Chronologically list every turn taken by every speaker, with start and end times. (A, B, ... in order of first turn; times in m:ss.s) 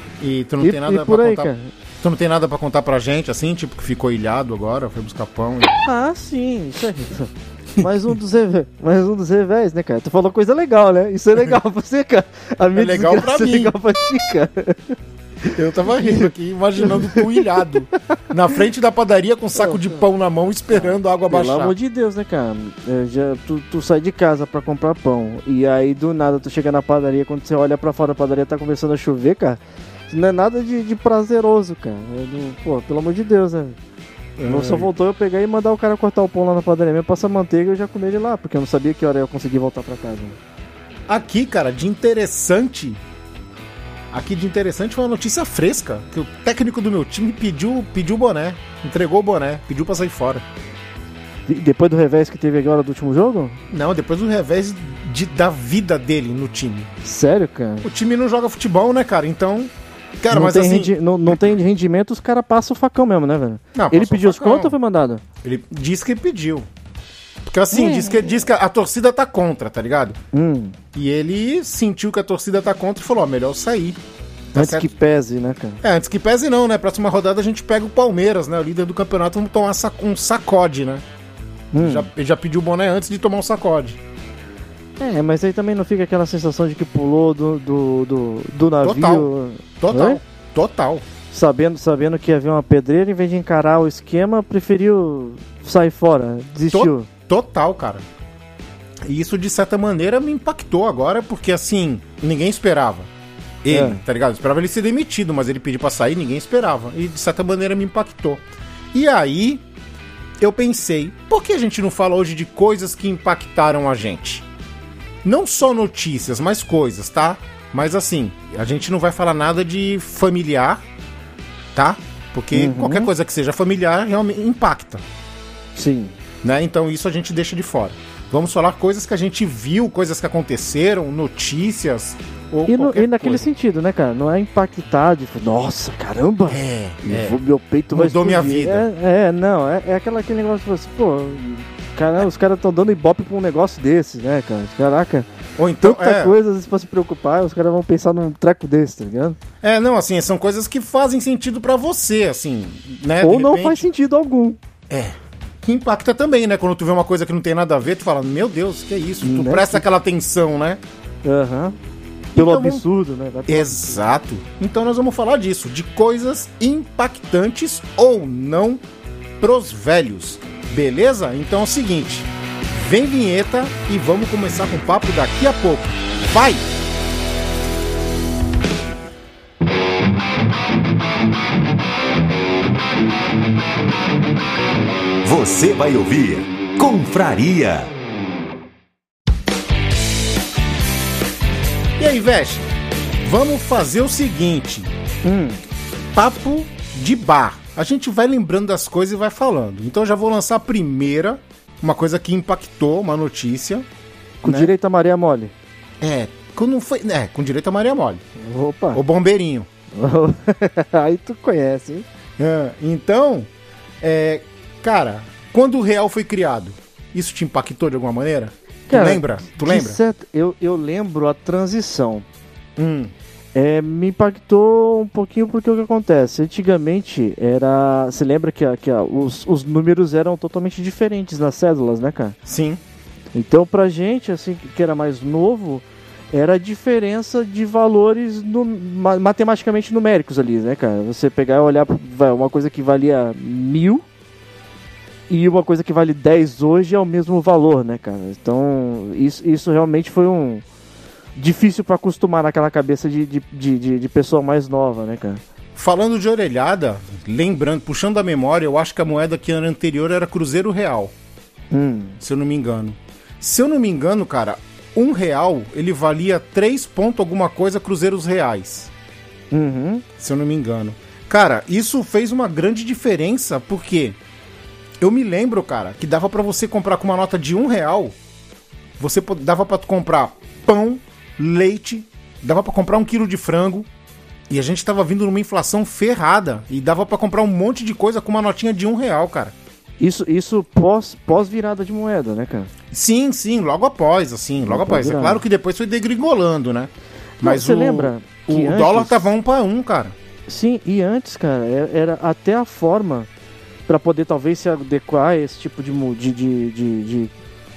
0:00.2-0:05.8 A
0:00.6-0:01.7 B
0:05.8-0:17.4 B
0:12.8-0:13.7 A
0:15.5-0:21.7 A
0:20.7-0:33.8 B
0:34.4-0:34.9 A
0:34.4-0:40.4 B
0:41.1-0:43.0 A
0:44.1-0:50.4 A
0:51.5-0:53.6 B
0:53.7-0:56.9 A
0:57.0-0:57.9 B
0:57.8-1:01.5 A
1:00.3-1:05.2 B
1:03.7-1:04.8 A
1:05.4-1:06.7 A
1:07.5-1:10.2 A
1:07.7-1:08.3 B
1:10.3-1:10.8 B
1:10.9-1:14.0 A
1:14.5-1:14.9 A
1:14.6-1:15.8 B
1:15.8-1:21.0 A
1:21.7-1:22.1 B
1:21.8-1:24.0 A
1:25.0-1:30.2 B
1:28.8-1:31.0 A
1:31.3-1:37.1 B
1:36.7-1:38.0 A
1:39.0-1:43.1 A
1:43.6-1:49.6 A
1:43.7-1:44.0 B
1:50.4-1:54.4 A
1:55.2-2:00.8 A
2:01.7-2:05.0 A
2:02.5-2:03.1 B
2:05.7-2:06.1 B
2:06.4-2:13.4 A
2:12.7-2:25.3 B
2:16.5-2:17.4 A
2:17.9-2:18.9 A
2:25.6-2:26.3 A
2:25.8-2:29.4 B
2:29.6-2:33.8 A
2:33.2-2:34.6 B
2:34.9-2:40.8 A
2:39.2-2:39.8 B
2:41.2-2:41.8 B
2:42.3-2:42.8 A
2:42.3-2:44.1 B
2:43.5-2:48.8 A
2:49.4-2:56.6 A
3:05.2-3:07.9 C
3:12.0-3:12.7 A
3:13.2-3:14.9 A
3:15.2-3:15.6 B
3:16.1-3:23.8 A
3:24.4-3:25.5 B
3:24.4-3:24.7 A
3:26.0-3:28.2 A
3:28.4-3:29.0 B
3:28.9-3:29.7 A
3:30.0-3:32.0 B
3:32.4-3:33.5 A
3:34.0-3:40.0 A
3:38.9-3:42.2 B
3:42.8-3:43.1 A
3:43.5-3:52.4 B
3:52.4-3:52.8 A
3:53.3-4:04.0 B
4:05.3-4:10.6 B
4:11.4-4:15.4 B
4:15.8-4:21.1 A
4:21.7-4:22.2 B
4:22.2-4:28.9 A
4:29.5-4:30.0 B
4:30.2-4:34.2 A
4:35.0-4:38.1 A
4:39.0-4:43.9 A
4:44.5-4:49.5 A
4:50.0-4:52.7 B
4:52.9-5:00.1 A
4:54.6-4:55.4 B
4:57.4-4:59.2 B
5:00.5-5:03.3 B
5:03.9-5:07.3 B